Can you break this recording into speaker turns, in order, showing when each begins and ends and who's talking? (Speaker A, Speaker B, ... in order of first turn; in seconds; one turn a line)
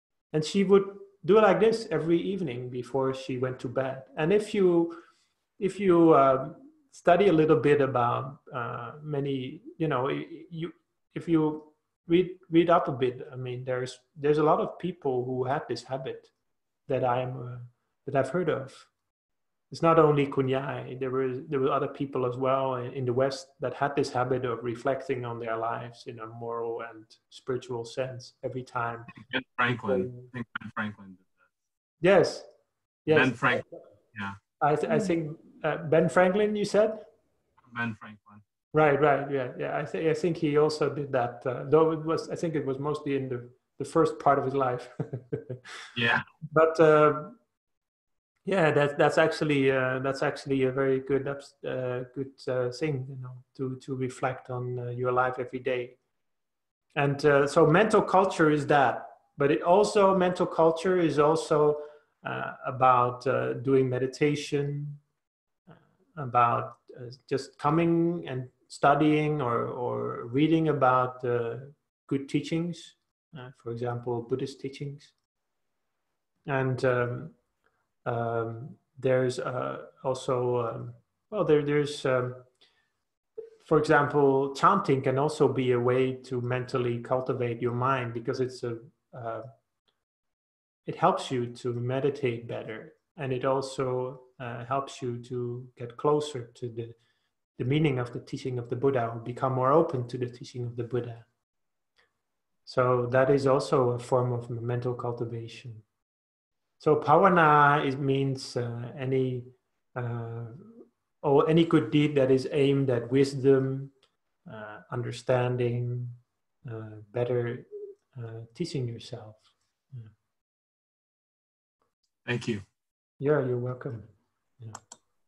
Speaker A: 0.3-5.0
Speaker A: 5.6-16.3
Speaker A: 16.9-18.9
Speaker A: 19.7-29.1
Speaker B: 29.1-31.4
Speaker A: 29.7-30.3
Speaker A: 32.0-32.5
Speaker A: 33.0-33.8
Speaker B: 33.1-34.4
Speaker A: 34.6-37.1
Speaker B: 37.7-38.4
Speaker A: 38.7-45.6
Speaker B: 46.0-46.2
Speaker A: 46.5-47.4
Speaker A: 48.5-56.0
Speaker A: 57.0-65.0
Speaker A: 65.7-75.1
Speaker A: 76.5-77.4
Speaker A: 78.0-82.5
Speaker A: 83.6-89.4
Speaker A: 90.9-97.0
Speaker A: 97.6-101.3
Speaker A: 102.7-105.8
Speaker A: 106.8-113.9
Speaker A: 114.5-120.1
Speaker B: 122.2-122.6
Speaker A: 123.2-124.1